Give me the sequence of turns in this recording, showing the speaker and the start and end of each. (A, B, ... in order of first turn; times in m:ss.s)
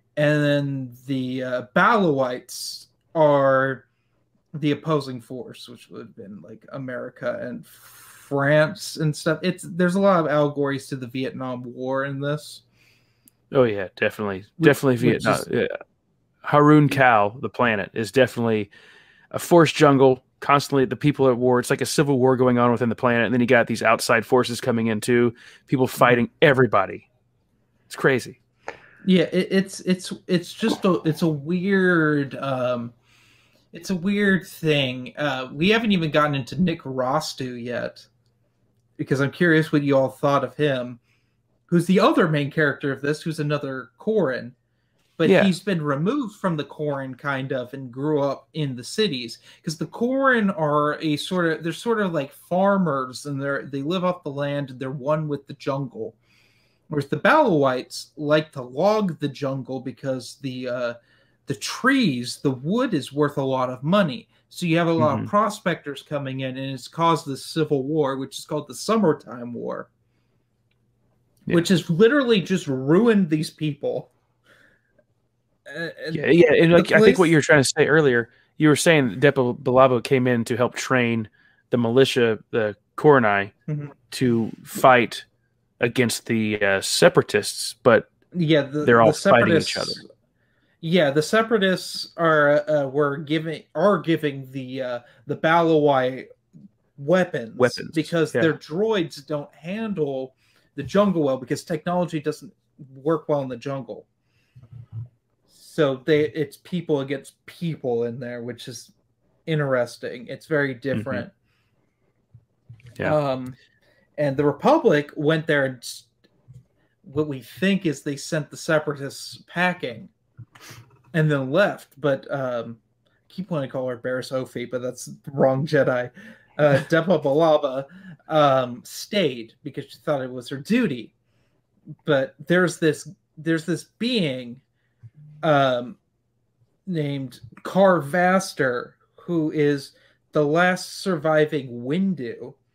0:00.2-0:03.8 A
0:04.5-0:12.6 A
0:13.5-0:15.8 B
0:14.6-0:15.4 A
0:16.4-0:18.7 B
0:19.3-0:27.1 B
0:27.9-0:28.4 B
0:29.0-0:32.9 A
0:33.7-0:38.1 A
0:39.0-0:41.0 A
0:41.7-0:44.5 A
0:45.2-0:56.2 A
0:45.2-0:45.5 B
0:56.9-1:01.0 A
1:01.5-1:09.9 A
1:05.0-1:05.3 B
1:11.5-1:14.1 A
1:15.7-1:17.3 A
1:16.1-1:23.5 B
1:23.7-1:23.9 A
1:24.1-1:25.2 B
1:25.8-1:28.1 B
1:28.3-1:30.1 A
1:28.8-1:30.0 B
1:30.8-1:36.3 A
1:37.0-1:44.0 A
1:37.6-1:38.5 B
1:45.5-1:48.9 A
1:49.4-1:51.3 A
1:50.9-1:51.2 B
1:53.0-1:53.6 A
1:54.2-1:56.1 A
1:57.0-2:00.1 A
2:01.1-2:11.1 A
2:12.0-2:14.6 A
2:15.4-2:16.0 A
2:16.8-2:22.6 A